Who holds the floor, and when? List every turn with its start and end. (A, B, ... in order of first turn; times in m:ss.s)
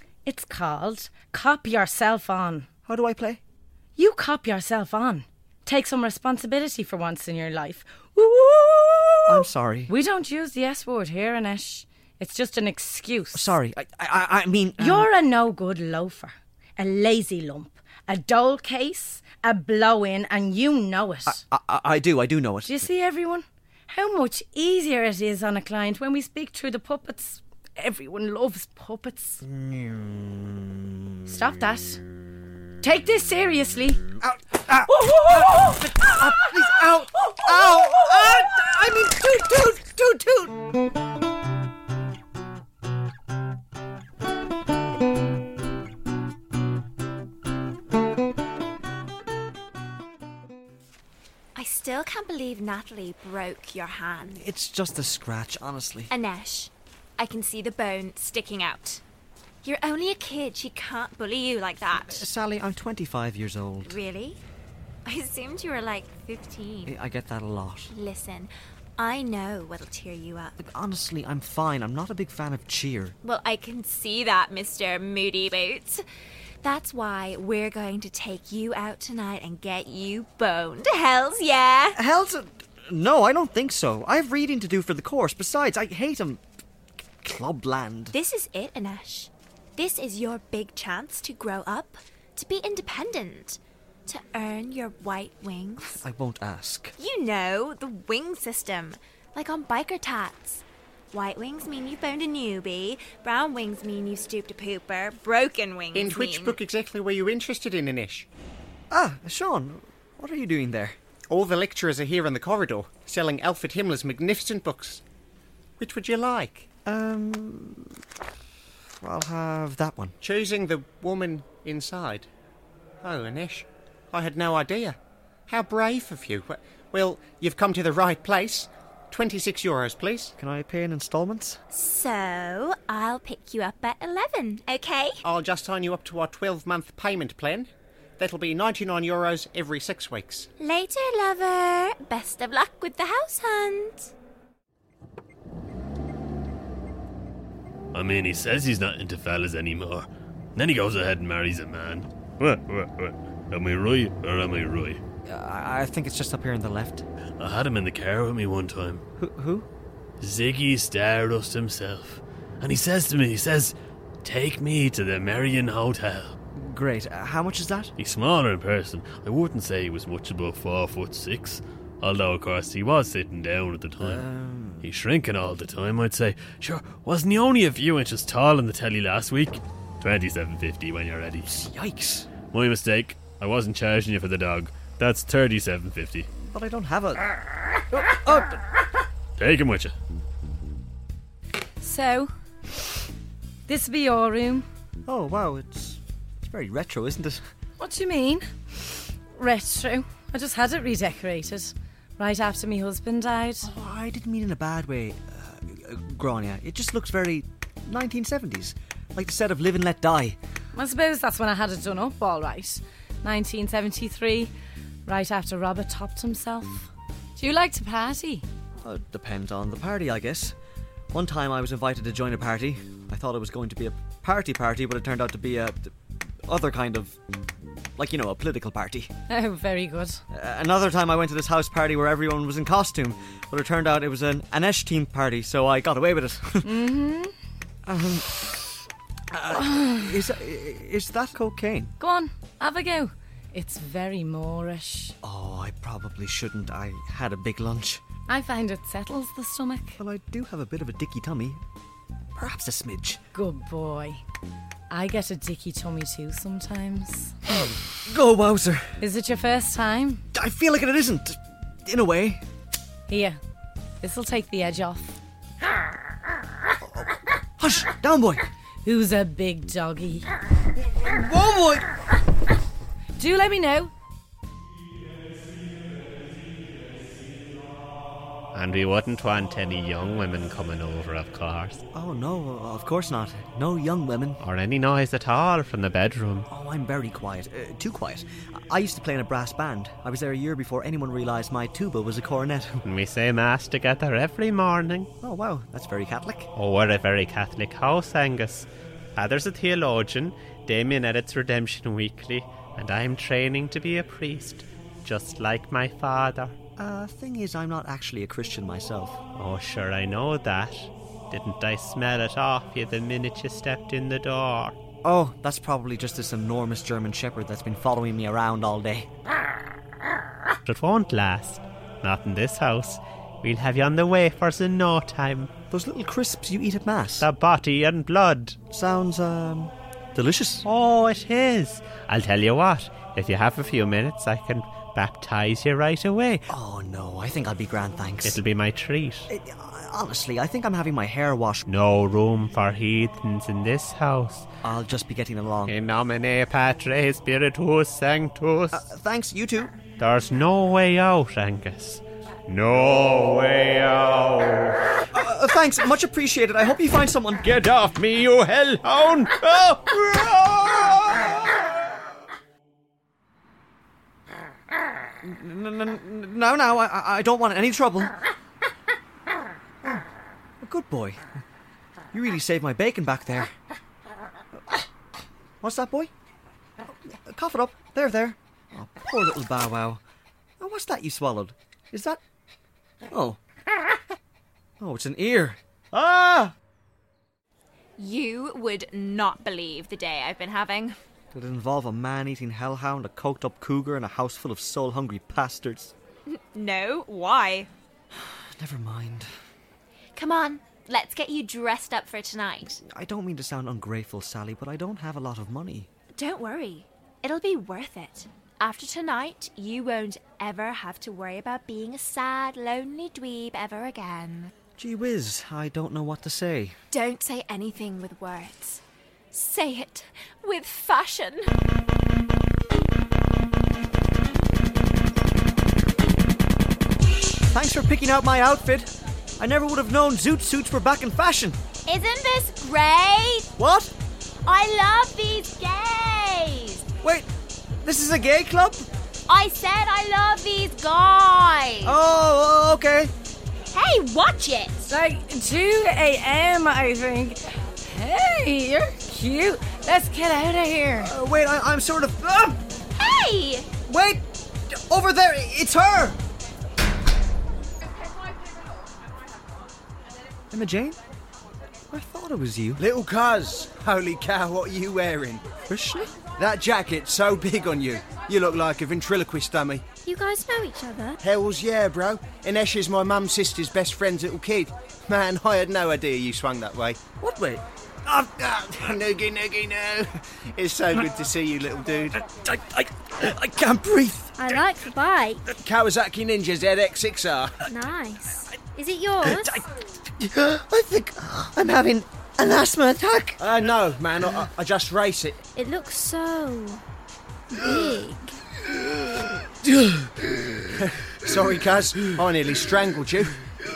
0:00.2-0:02.7 A
0:02.8-0:03.4 B
0:04.0-0:13.5 A
0:09.2-0:09.9 B
0:13.3-0:15.1 B
0:14.8-0:21.4 A
0:21.2-0:22.9 B
0:22.6-0:29.4 A
0:29.4-0:30.8 B
0:31.2-0:32.0 A
0:32.8-0:34.0 A
0:34.2-0:40.7 B
0:34.8-0:38.6 A
0:51.5-0:54.4 C
0:54.3-0:56.1 B
0:56.1-0:59.0 C
0:59.6-1:02.2 C
1:02.0-1:04.0 B
1:03.8-1:04.4 C
1:05.0-1:06.9 C
1:06.8-1:07.9 B
1:07.9-1:10.5 C
1:10.6-1:13.2 B
1:13.2-1:16.0 C
1:16.6-1:22.0 C
1:21.9-1:26.4 B
1:27.2-1:28.1 B
1:28.1-1:36.0 C
1:35.8-1:36.9 B
1:37.0-1:46.6 C
1:45.9-1:48.2 D
1:48.9-1:51.0 B
1:51.3-1:55.0 D
1:55.8-1:56.7 D
1:56.8-1:58.0 B
1:59.0-2:00.2 B
2:00.2-2:02.3 D
2:03.0-2:05.0 D
2:05.5-2:10.3 D
2:10.4-2:11.6 B
2:11.7-2:15.2 C
2:15.2-2:20.5 D
2:20.6-2:24.1 C
2:27.9-2:35.0 E
2:35.2-2:37.0 B
2:37.4-2:39.0 E
2:39.2-2:39.7 B
2:40.2-2:46.3 E
2:46.5-2:47.9 B
2:48.0-2:54.2 E
2:54.0-2:54.9 B
2:54.8-3:01.5 E
3:01.4-3:02.3 B
3:02.5-3:06.3 E
3:06.4-3:07.3 B
3:07.9-3:08.6 B
3:09.4-3:09.9 E
3:11.8-3:12.3 A
3:13.7-3:14.6 A
3:15.0-3:17.4 B
3:17.8-3:18.4 A
3:19.3-3:23.7 A
3:23.6-3:30.4 B
3:30.7-3:34.5 A
3:35.0-3:38.4 A
3:38.8-3:40.6 B
3:41.1-3:45.9 B
3:46.4-3:47.2 B
3:48.0-3:49.1 B
3:49.3-3:50.2 A
3:50.3-3:56.7 B
3:56.6-3:57.3 A
3:57.8-4:01.9 B
3:59.6-4:00.1 A
4:02.0-4:05.2 A
4:05.2-4:08.0 B
4:08.3-4:10.0 A
4:10.0-4:11.6 B
4:12.3-4:13.2 B
4:13.3-4:14.2 A
4:14.9-4:17.4 A
4:17.5-4:19.0 B
4:19.0-4:20.2 A
4:20.3-4:22.4 B
4:23.1-4:23.4 A
4:24.0-4:25.2 A
4:27.6-4:28.5 B
4:28.8-4:30.3 A
4:30.8-4:31.9 B
4:33.2-4:33.9 A
4:38.5-4:41.8 F
4:41.9-4:44.4 B
4:44.4-4:46.5 F
4:46.5-4:52.8 B
4:52.8-4:55.1 F
4:55.2-4:56.5 B
4:56.6-5:06.5 F
5:06.8-5:09.2 B
5:09.4-5:14.8 F
5:15.0-5:19.1 B
5:20.6-5:25.5 F
5:25.7-5:27.3 B
5:27.2-5:28.6 F
5:28.7-5:30.6 B
5:30.6-5:36.5 F
5:36.5-5:38.4 B
5:38.2-5:39.3 F
5:39.3-5:41.6 B
5:41.7-5:44.5 F
5:44.6-5:45.8 B
5:45.7-5:48.8 F
5:48.7-5:49.7 B
5:50.0-5:54.8 F
5:55.1-5:57.4 B
5:57.5-5:59.5 F
6:05.2-6:08.1 B
6:10.6-6:11.4 B
6:12.1-6:13.5 B
6:15.6-6:16.1 B
6:17.1-6:20.0 B
6:20.6-6:22.2 B
6:23.1-6:23.4 B
6:24.8-6:26.5 B
6:28.0-6:31.0 C
6:31.3-6:35.9 B
6:36.3-6:37.7 C
6:38.1-6:39.3 B
6:40.1-6:42.8 C
6:42.7-6:45.9 B
6:46.2-6:54.5 C
6:54.8-6:56.8 B
6:56.9-7:01.6 C
7:07.5-7:11.6 B
7:11.8-7:13.5 C
7:13.6-7:13.9 B
7:14.4-7:16.8 C
7:17.0-7:17.3 B
7:17.8-7:18.8 B
7:19.3-7:22.0 C
7:21.8-7:23.1 B
7:23.7-7:24.9 C
7:24.9-7:31.1 A
7:31.0-7:32.6 B
7:32.9-7:33.7 C
7:33.8-7:36.2 B
7:40.5-7:41.0 B
7:41.9-7:42.8 B
7:42.8-7:45.5 G
7:45.7-7:46.2 B
7:46.3-7:49.8 G
7:50.0-7:51.2 H
7:51.2-7:57.1 G
7:57.2-7:58.4 B
7:58.3-8:02.2 G
8:02.3-8:04.4 B
8:04.4-8:05.4 H
8:05.5-8:07.5 G
8:07.6-8:09.5 H
8:09.2-8:13.4 B
8:13.4-8:15.4 G
8:15.5-8:16.8 H
8:17.5-8:18.4 H
8:20.8-8:23.3 G